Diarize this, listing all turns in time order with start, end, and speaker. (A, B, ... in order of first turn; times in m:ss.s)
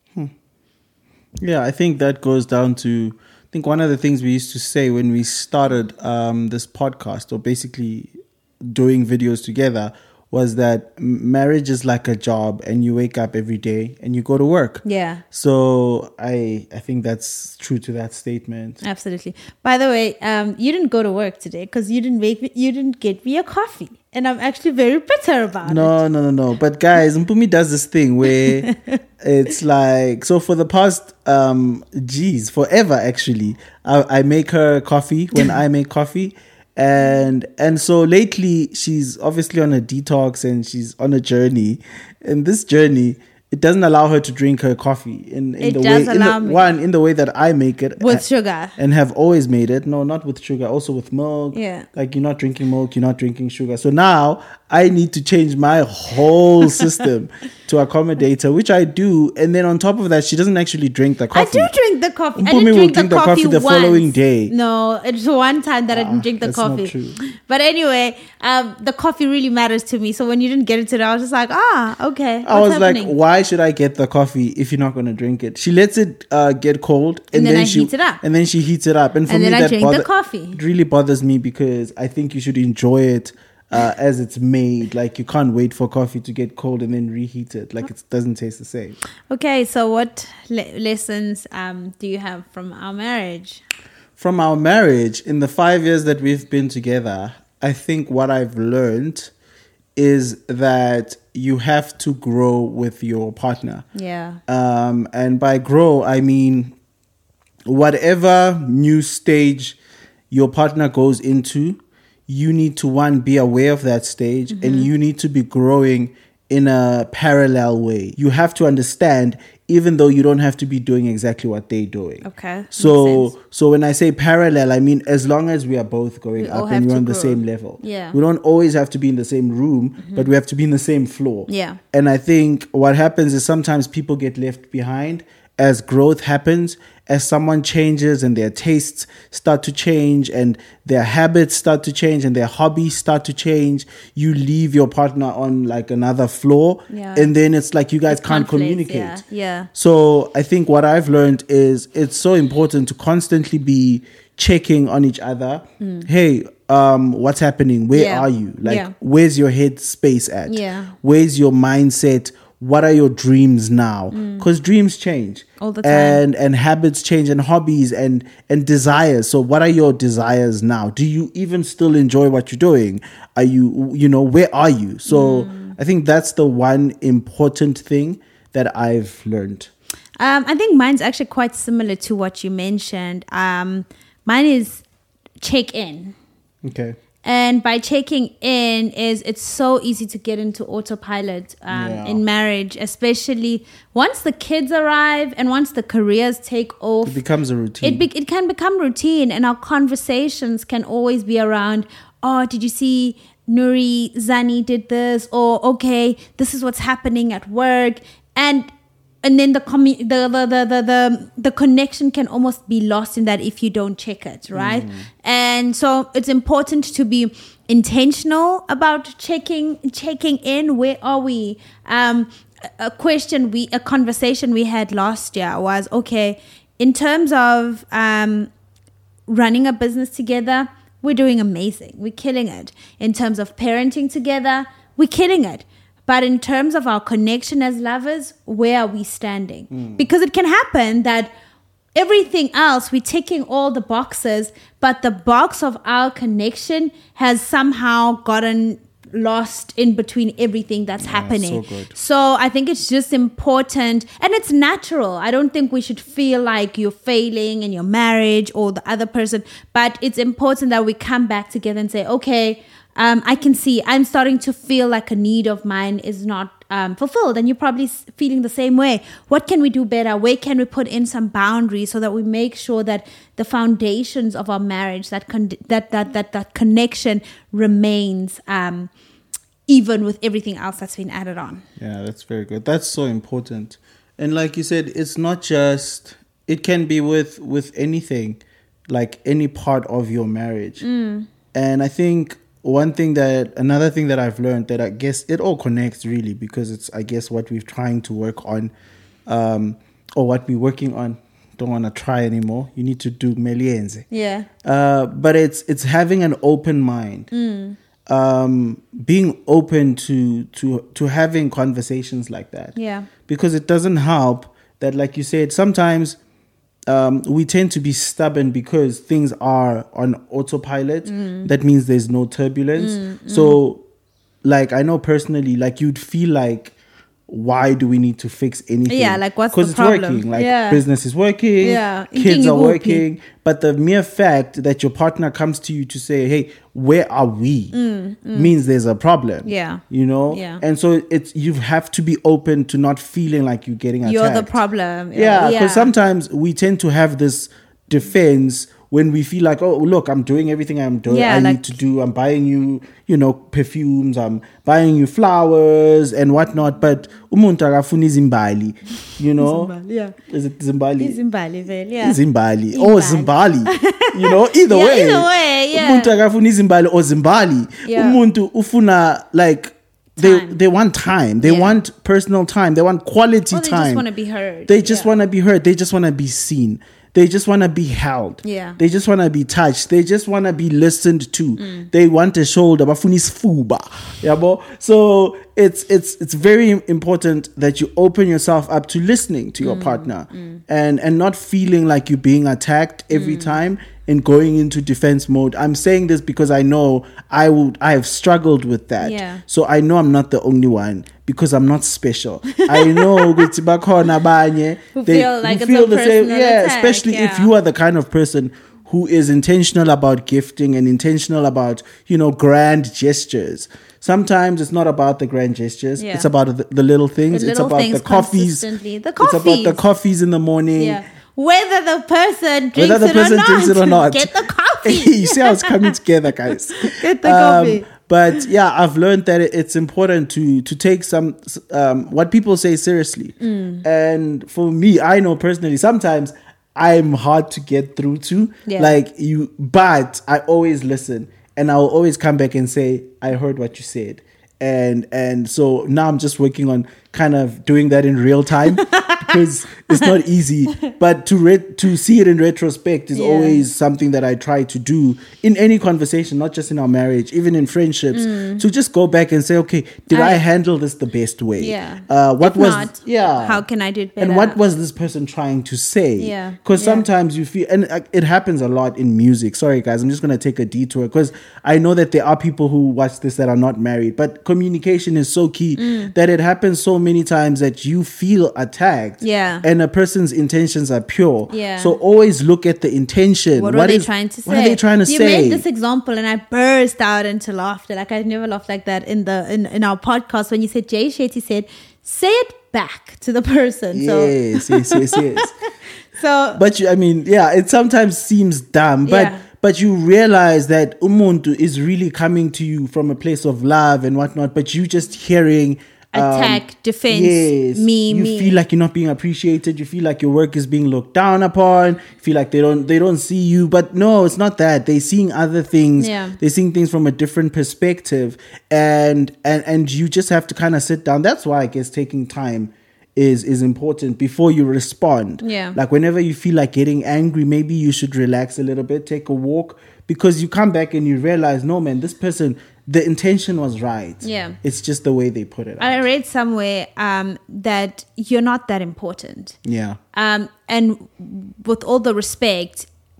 0:01.4-0:08.1 A
0:08.6-0:18.8 A
0:14.8-0:15.2 B
0:18.8-0:26.0 B
0:25.6-0:28.7 A
0:28.2-0:29.0 B
0:29.2-0:48.2 A
0:45.6-0:46.7 B
0:48.0-0:48.8 B
0:48.8-1:01.7 A
0:51.5-0:51.9 B
1:01.3-1:13.2 B
1:02.4-1:04.5 A
1:05.9-1:07.2 A
1:12.4-1:29.0 A
1:17.3-1:18.2 B
1:19.3-1:20.6 B
1:29.3-1:33.6 B
1:34.2-1:39.3 A
1:40.0-1:43.8 A
1:44.0-1:44.4 B
1:44.5-1:46.7 A
1:47.7-1:49.8 A
1:50.3-2:29.2 A
1:54.5-1:54.9 B
2:02.2-2:03.3 B
2:06.4-2:08.2 B
2:10.0-2:10.3 B
2:11.5-2:11.8 B
2:26.9-2:27.3 B
2:28.1-2:29.7 B
2:29.7-2:59.7 A
2:35.8-2:36.1 B
2:37.9-2:38.9 B
2:40.5-2:40.9 B
2:44.1-2:44.5 B
2:45.6-2:46.2 B
2:55.1-2:55.8 B
3:00.2-3:04.8 B
3:05.4-3:06.2 B
3:06.6-3:07.0 A
3:07.2-3:17.2 B
3:11.7-3:12.2 A
3:17.0-3:18.1 A
3:17.8-3:28.7 B
3:29.2-3:48.5 B
3:34.5-3:35.1 A
3:49.3-4:01.3 B
3:59.7-4:00.1 A
4:02.0-4:38.9 B
4:11.0-4:12.0 A
4:39.7-4:41.6 B
4:41.8-4:50.9 A
4:50.8-4:51.3 B
4:51.5-4:58.7 A
4:59.3-5:04.1 A
5:04.1-5:04.5 B
5:04.6-5:07.3 A
5:07.3-5:07.8 B
5:08.1-5:12.8 A
5:12.8-5:13.1 B
5:13.3-5:16.2 A
5:16.9-5:23.8 A
5:21.1-5:21.5 B
5:22.8-5:23.6 B
5:24.4-5:26.7 A
5:27.3-5:37.8 A
5:28.9-5:30.8 B
5:31.6-5:33.0 B
5:37.7-5:38.5 B
5:38.3-5:44.6 A
5:39.5-5:40.6 B
5:44.0-5:45.9 B
5:45.1-5:59.7 A
5:51.1-5:51.8 B
5:59.4-6:00.2 B
6:00.3-6:01.2 A
6:01.0-6:02.2 B
6:02.0-6:14.0 A
6:02.7-6:06.2 B
6:07.8-6:08.2 B
6:10.2-6:10.6 B
6:11.4-6:11.8 B
6:13.5-6:15.1 B
6:14.7-6:58.7 A
6:18.4-6:18.8 B
6:21.6-6:21.9 B
6:29.6-6:30.6 B
6:33.1-6:33.6 B
6:39.0-6:39.4 B
6:42.6-6:43.5 B
6:45.0-6:47.5 B
6:56.0-6:56.3 B
6:57.3-6:59.8 B
6:59.2-7:01.0 A
7:00.8-7:05.9 B
7:02.8-7:43.6 A
7:06.8-7:07.8 B
7:13.4-7:13.8 B
7:18.7-7:19.0 B
7:28.7-7:30.2 B
7:33.1-7:33.6 B
7:38.1-7:38.6 B
7:40.1-7:40.4 B
7:41.6-7:44.6 B
7:44.2-8:05.6 A
7:46.2-7:47.1 B
7:55.8-7:56.1 B
7:59.2-7:59.6 B
8:01.5-8:02.0 B
8:03.5-8:15.5 B
8:13.9-8:15.6 A
8:16.2-8:16.6 B
8:16.6-8:56.0 A
8:19.1-8:19.4 B
8:26.1-8:28.6 B
8:36.0-8:36.4 B
8:45.4-8:45.8 B
8:54.2-8:54.6 B
8:55.8-8:59.6 B
8:59.6-9:00.0 A
9:00.1-9:02.9 B